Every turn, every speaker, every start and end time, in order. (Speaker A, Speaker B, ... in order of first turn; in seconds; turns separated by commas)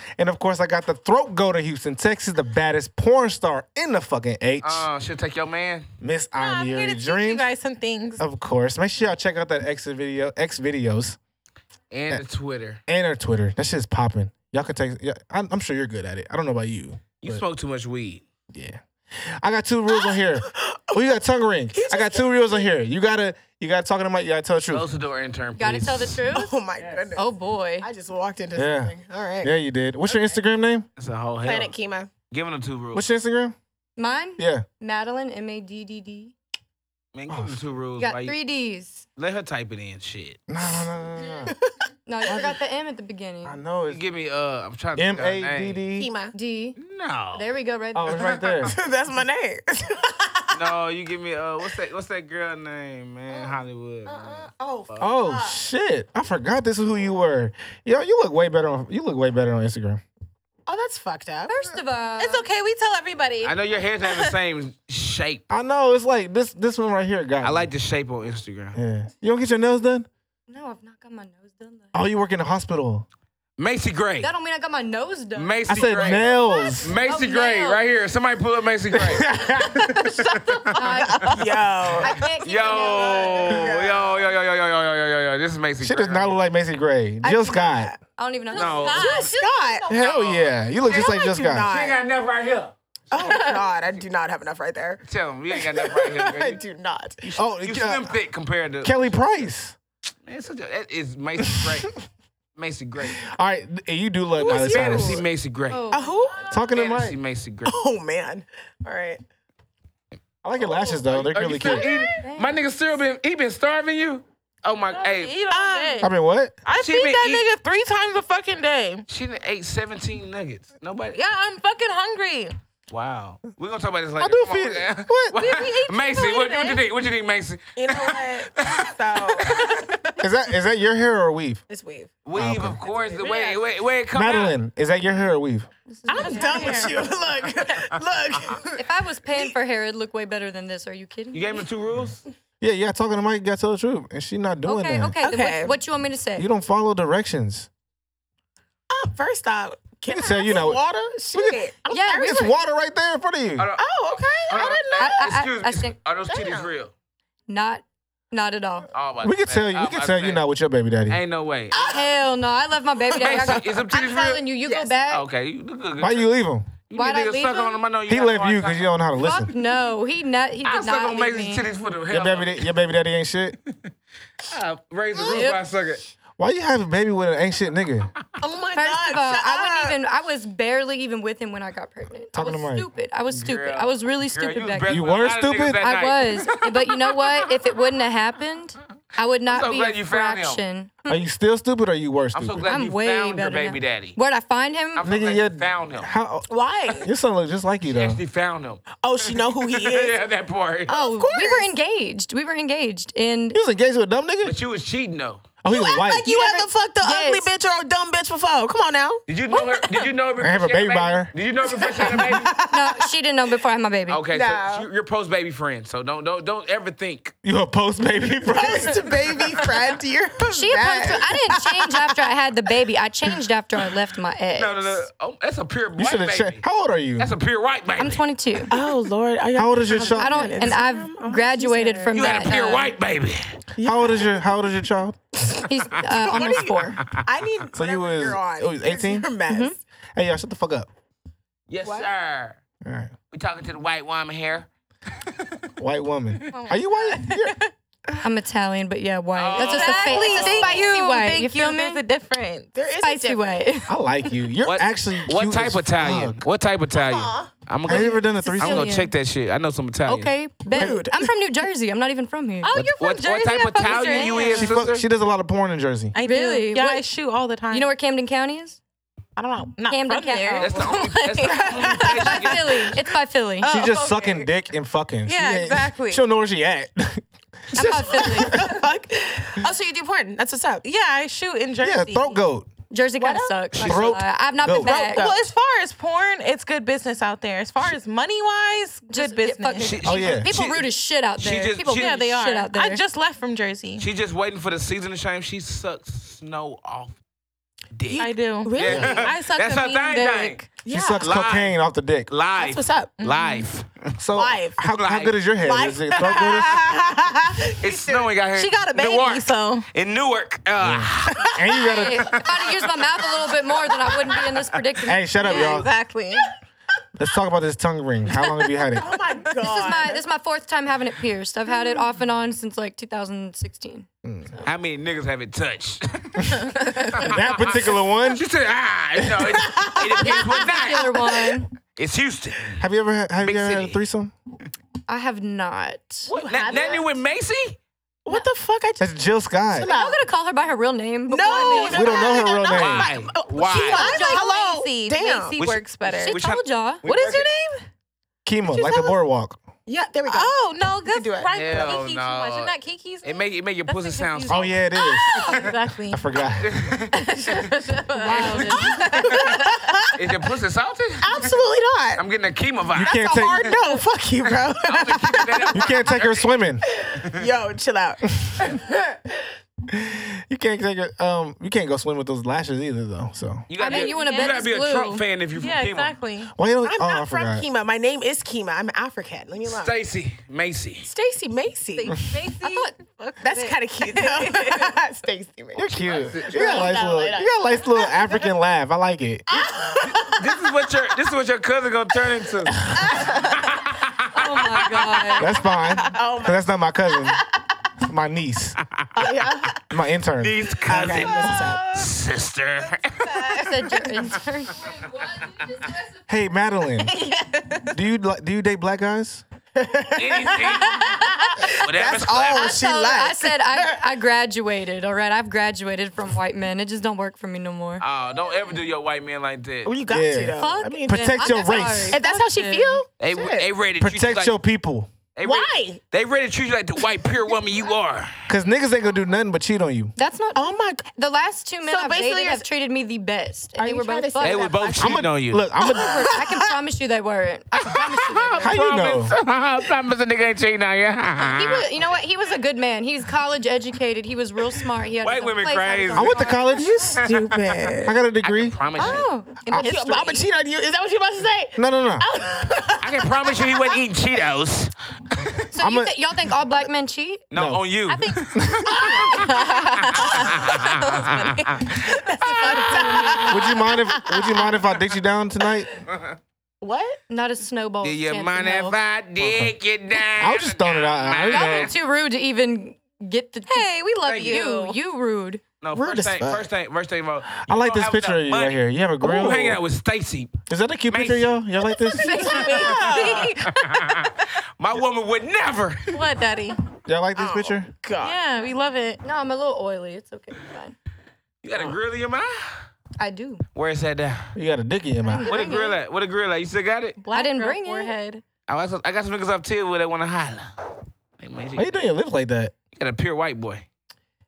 Speaker A: 0.2-4.9, Speaker B: 4.6-5.9, Speaker A: 6.0-7.5, Speaker C: 6.3-8.2, Speaker A: 8.2-11.2, Speaker B: 11.9-12.8, Speaker A: 12.9-17.4, Speaker B: 17.2-18.2, Speaker A: 18.5-24.9, Speaker D: 19.9-21.0, Speaker D: 21.7-22.7, Speaker B: 24.7-26.2, Speaker E: 25.6-26.5, Speaker D: 26.3-27.3, Speaker E: 27.1-27.9, Speaker D: 27.8-29.5, Speaker A: 28.5-30.9, Speaker B: 31.0-31.8, Speaker D: 31.4-32.1, Speaker B: 32.3-33.0, Speaker A: 32.9-33.5, Speaker E: 34.0-36.3, Speaker A: 34.4-34.6, Speaker B: 37.1-38.4, Speaker A: 37.3-37.6, Speaker E: 38.0-39.0, Speaker B: 39.2-40.4, Speaker A: 40.5-41.5, Speaker D: 41.4-41.7, Speaker E: 42.0-43.5, Speaker A: 42.2-42.6, Speaker A: 43.4-44.0, Speaker B: 43.9-45.8, Speaker A: 44.9-46.1, Speaker D: 46.0-46.3, Speaker E: 46.3-46.8, Speaker B: 46.8-47.5, Speaker E: 47.3-48.7, Speaker A: 47.9-48.8, Speaker D: 48.1-50.6, Speaker B: 50.5-55.0, Speaker D: 53.3-55.6, Speaker A: 55.0-60.0, Speaker D: 60.6-61.6, Speaker E: 61.5-62.5, Speaker C: 62.2-64.3, Speaker B: 63.4-65.4, Speaker A: 65.5-67.7, Speaker B: 67.4-68.8, Speaker A: 68.7-70.1, Speaker E: 70.5-71.9, Speaker A: 71.9-73.0, Speaker B: 73.6-74.3, Speaker E: 74.2-75.6, Speaker B: 75.3-80.9, Speaker A: 75.7-77.0, Speaker E: 76.4-77.8, Speaker A: 79.0-79.8, Speaker D: 80.5-82.1, Speaker E: 80.7-83.6, Speaker B: 82.0-86.4, Speaker D: 82.8-84.3, Speaker A: 85.8-87.9, Speaker D: 87.2-88.0, Speaker E: 88.2-89.0, Speaker D: 88.5-89.9, Speaker B: 88.5-89.3, Speaker C: 88.5-89.9, Speaker A: 89.9-91.7, Speaker B: 89.9-90.6, Speaker D: 90.8-92.0, Speaker B: 91.7-93.3, Speaker D: 93.1-97.2, Speaker C: 93.2-93.6, Speaker B: 95.0-96.6, Speaker B: 97.2-99.3, Speaker A: 97.3-98.2, Speaker A: 98.8-99.8, Speaker B: 100.2-102.0, Speaker B: 102.5-103.2, Speaker A: 103.2-105.2, Speaker D: 104.3-105.2, Speaker B: 104.6-105.8, Speaker E: 105.7-106.3, Speaker D: 105.9-106.5, Speaker A: 106.5-107.2, Speaker B: 106.7-107.8, Speaker D: 107.6-109.2, Speaker A: 110.4-111.9, Speaker D: 110.6-111.0, Speaker B: 111.0-115.4, Speaker D: 111.6-112.0, Speaker E: 112.2-112.6, Speaker C: 114.8-116.1, Speaker D: 115.5-116.0, Speaker A: 116.0-116.5, Speaker C: 116.7-119.0, Speaker B: 116.7-117.5, Speaker B: 119.1-121.2, Speaker C: 121.1-122.5, Speaker B: 122.9-129.7, Speaker A: 124.2-125.7, Speaker C: 125.3-126.8, Speaker D: 127.8-129.6, Speaker C: 129.5-130.1, Speaker A: 130.2-131.6, Speaker D: 131.7-132.1, Speaker B: 132.2-134.6, Speaker A: 132.3-132.8, Speaker D: 132.9-133.6, Speaker A: 134.1-135.7, Speaker E: 135.9-137.1, Speaker C: 136.1-137.1, Speaker D: 136.1-138.8, Speaker E: 138.8-141.6, Speaker B: 141.3-142.2, Speaker A: 142.6-145.1, Speaker E: 144.6-146.4, Speaker D: 145.2-145.8, Speaker A: 146.4-147.7, Speaker D: 148.9-152.4, Speaker A: 150.1-150.8, Speaker A: 151.3-153.7, Speaker E: 151.9-152.6, Speaker B: 153.6-156.9, Speaker D: 153.8-155.3, Speaker E: 155.0-155.9, Speaker D: 156.3-156.7, Speaker E: 157.5-158.9, Speaker B: 158.9-160.4, Speaker A: 159.2-161.2, Speaker B: 161.1-161.8, Speaker D: 161.7-162.2, Speaker E: 161.7-165.2, Speaker D: 163.1-163.6, Speaker B: 163.2-164.5, Speaker D: 164.6-165.0, Speaker B: 165.1-166.3, Speaker A: 166.0-166.7, Speaker B: 166.9-168.9, Speaker E: 166.9-167.8, Speaker A: 168.1-169.5, Speaker E: 169.2-171.7, Speaker B: 170.6-172.7, Speaker A: 172.1-173.6, Speaker B: 174.5-176.1, Speaker D: 175.1-175.5, Speaker A: 176.4-178.1, Speaker D: 178.4-180.0, Speaker E: 178.7-184.9, Speaker A: 182.3-182.9, Speaker B: 183.3-187.4, Speaker A: 184.9-185.9, Speaker E: 185.8-191.1, Speaker B: 189.5-190.6, Speaker A: 191.1-192.7, Speaker B: 192.3-194.2, Speaker E: 192.7-195.1, Speaker B: 194.9-196.1, Speaker A: 195.0-198.2, Speaker D: 196.5-197.1, Speaker B: 197.8-201.0, Speaker D: 199.0-200.2, Speaker D: 200.9-201.7, Speaker E: 200.9-203.6, Speaker A: 203.5-204.6, Speaker B: 204.4-205.4, Speaker A: 205.6-206.7, Speaker D: 205.7-209.2, Speaker E: 207.0-207.5, Speaker B: 209.3-212.5, Speaker C: 209.5-210.1, Speaker A: 210.4-211.3, Speaker D: 211.6-213.1, Speaker E: 212.7-214.2, Speaker B: 214.1-217.3, Speaker D: 214.3-214.9, Speaker A: 217.4-219.4, Speaker D: 218.5-222.2, Speaker E: 220.5-225.0, Speaker B: 224.5-226.6, Speaker A: 226.0-227.3, Speaker B: 227.2-228.2, Speaker E: 228.0-228.7, Speaker D: 228.7-232.6, Speaker A: 229.5-230.4, Speaker E: 230.1-232.9, Speaker B: 232.1-233.5, Speaker D: 233.8-234.3, Speaker A: 233.8-235.2, Speaker E: 235.6-237.0, Speaker D: 236.1-239.8, Speaker A: 237.7-239.3, Speaker E: 239.5-239.7, Speaker A: 240.1-240.9, Speaker B: 241.7-242.6, Speaker D: 241.8-242.1, Speaker A: 242.8-243.1, Speaker B: 243.3-244.7, Speaker B: 245.3-245.7, Speaker A: 245.8-247.6, Speaker C: 246.5-247.7, Speaker E: 248.2-252.0, Speaker B: 249.3-250.5, Speaker C: 249.5-252.7, Speaker D: 250.1-250.8, Speaker D: 252.7-253.5, Speaker E: 253.0-253.9, Speaker A: 253.9-256.4, Speaker B: 254.6-260.3, Speaker D: 256.9-257.5, Speaker A: 257.9-258.9, Speaker E: 257.9-259.1, Speaker E: 260.1-262.7, Speaker D: 260.7-261.2, Speaker A: 260.7-261.3, Speaker C: 262.6-264.7, Speaker B: 262.7-265.0, Speaker E: 263.9-264.6, Speaker A: 264.5-266.1, Speaker C: 266.1-267.9, Speaker E: 266.2-267.0, Speaker E: 267.7-268.8, Speaker C: 269.4-272.9, Speaker E: 269.9-270.8, Speaker B: 270.6-272.9, Speaker E: 272.0-273.7, Speaker C: 273.6-274.5, Speaker A: 273.6-278.5, Speaker C: 275.2-276.2, Speaker E: 277.7-278.6, Speaker D: 277.7-280.8, Speaker C: 280.8-282.4, Speaker A: 281.8-282.7, Speaker E: 282.9-285.3, Speaker D: 283.2-284.1, Speaker A: 283.8-285.1, Speaker C: 284.8-290.0, Speaker D: 285.1-285.4, Speaker E: 289.1-293.0, Speaker B: 289.8-292.1, Speaker A: 290.0-290.5, Speaker C: 291.8-294.0, Speaker B: 294.0-297.2, Speaker B: 297.9-300.6, Speaker D: 298.1-299.4, Speaker C: 298.1-300.7, Speaker D: 300.8-301.3, Speaker A: 300.9-302.3, Speaker B: 301.2-301.8, Speaker B: 302.3-304.1, Speaker D: 302.6-303.2, Speaker C: 303.2-303.7, Speaker A: 304.2-306.9, Speaker D: 304.3-304.8, Speaker B: 304.9-305.3, Speaker D: 305.6-308.3, Speaker B: 307.8-311.5, Speaker C: 308.5-309.9, Speaker A: 310.8-312.4, Speaker E: 311.9-315.2, Speaker B: 312.0-313.0, Speaker B: 313.9-314.6, Speaker A: 315.1-315.9, Speaker C: 315.4-316.5, Speaker A: 317.1-319.1, Speaker D: 318.9-320.2, Speaker E: 319.6-324.1, Speaker A: 324.2-324.6, Speaker B: 324.6-331.4, Speaker A: 327.2-328.4, Speaker D: 329.5-331.1, Speaker E: 330.2-331.7, Speaker B: 331.9-332.8, Speaker A: 332.8-334.3, Speaker B: 333.4-334.0, Speaker E: 335.1-336.8, Speaker B: 336.3-337.8, Speaker D: 336.3-337.1, Speaker D: 338.2-339.1, Speaker A: 339.0-339.9, Speaker D: 339.7-340.2, Speaker E: 339.8-342.3, Speaker D: 341.3-345.6, Speaker C: 341.4-342.5, Speaker A: 341.9-343.1, Speaker B: 342.7-344.1, Speaker C: 343.7-346.4, Speaker E: 343.9-344.4, Speaker B: 345.6-347.5, Speaker E: 346.2-347.0, Speaker C: 347.0-347.8, Speaker A: 348.4-349.6, Speaker D: 348.6-349.2, Speaker D: 349.9-352.0, Speaker C: 350.2-356.3, Speaker B: 351.5-354.7, Speaker A: 354.5-356.8, Speaker B: 356.6-357.6, Speaker C: 357.1-360.1, Speaker E: 358.1-359.5, Speaker B: 358.3-358.8, Speaker D: 358.8-360.1, Speaker B: 360.1-361.6, Speaker D: 361.2-362.2, Speaker B: 362.1-363.2, Speaker A: 362.9-363.8, Speaker D: 363.0-366.0, Speaker B: 364.4-366.5, Speaker A: 365.7-366.8, Speaker D: 366.9-369.4, Speaker A: 369.9-373.7, Speaker B: 373.7-376.1, Speaker E: 373.8-375.2, Speaker C: 374.1-374.5, Speaker C: 375.5-376.5, Speaker A: 376.5-377.7, Speaker D: 376.8-379.9, Speaker B: 379.7-381.1, Speaker D: 381.0-382.2, Speaker C: 381.9-384.9, Speaker E: 382.6-382.9, Speaker D: 383.4-385.8, Speaker A: 385.8-389.6, Speaker B: 385.9-386.9, Speaker D: 386.5-388.5, Speaker D: 389.5-390.6, Speaker B: 390.0-395.3, Speaker D: 393.0-393.5, Speaker E: 394.3-395.6, Speaker A: 395.4-397.4, Speaker D: 395.9-396.6, Speaker A: 398.0-398.8, Speaker D: 399.1-399.8, Speaker A: 399.9-401.1, Speaker B: 400.4-403.4, Speaker D: 400.9-402.1, Speaker D: 403.2-404.0, Speaker E: 403.5-404.8, Speaker C: 405.0-405.9, Speaker A: 406.3-407.1, Speaker C: 407.0-407.9, Speaker A: 407.8-409.4, Speaker D: 409.8-414.0, Speaker B: 410.1-412.8, Speaker C: 410.8-411.5, Speaker E: 412.6-418.0, Speaker B: 418.0-419.9, Speaker D: 419.8-423.7, Speaker A: 420.1-422.2, Speaker E: 420.6-423.0, Speaker B: 423.2-424.5, Speaker A: 424.0-425.1, Speaker B: 425.3-428.3, Speaker D: 425.4-426.0, Speaker A: 428.5-430.1, Speaker E: 430.1-434.7, Speaker D: 430.5-431.1, Speaker D: 431.8-432.6, Speaker D: 433.8-436.4, Speaker B: 434.4-435.6, Speaker A: 435.0-436.3, Speaker E: 435.8-438.8, Speaker B: 437.8-441.9, Speaker A: 438.6-439.3, Speaker E: 441.4-446.8, Speaker B: 445.2-447.8, Speaker A: 446.1-447.0, Speaker D: 446.7-448.2, Speaker A: 448.0-448.8, Speaker B: 448.4-449.2, Speaker E: 448.9-450.1, Speaker D: 449.7-454.0, Speaker C: 449.7-450.4, Speaker A: 451.7-452.2, Speaker B: 453.0-454.9, Speaker E: 455.7-457.4, Speaker A: 455.7-456.2, Speaker B: 457.5-461.8, Speaker A: 457.5-457.8, Speaker C: 458.1-461.7, Speaker A: 458.5-459.0, Speaker D: 458.9-460.5, Speaker D: 461.9-464.4, Speaker E: 462.4-464.0, Speaker C: 462.4-463.6, Speaker A: 463.5-465.9, Speaker C: 464.3-464.7, Speaker D: 466.8-467.2, Speaker E: 467.3-469.0, Speaker B: 468.0-471.9, Speaker A: 469.4-469.7, Speaker A: 470.3-471.9, Speaker E: 471.4-475.6, Speaker C: 473.7-475.0, Speaker B: 475.8-480.5, Speaker D: 475.9-476.6, Speaker A: 477.6-479.8, Speaker A: 480.7-482.7, Speaker B: 481.1-481.6, Speaker C: 482.0-484.5, Speaker D: 482.1-483.6, Speaker B: 482.8-486.1, Speaker C: 486.1-486.8, Speaker A: 487.0-487.9, Speaker D: 487.3-488.4, Speaker C: 488.2-489.2, Speaker E: 489.2-490.9, Speaker B: 491.6-492.6, Speaker E: 493.2-493.6, Speaker B: 493.7-494.5, Speaker A: 494.5-495.7, Speaker E: 495.2-496.0, Speaker B: 495.4-497.2, Speaker C: 497.2-498.4, Speaker E: 497.3-498.1, Speaker B: 498.6-500.7, Speaker B: 501.4-501.9, Speaker A: 501.7-502.7, Speaker B: 502.9-503.9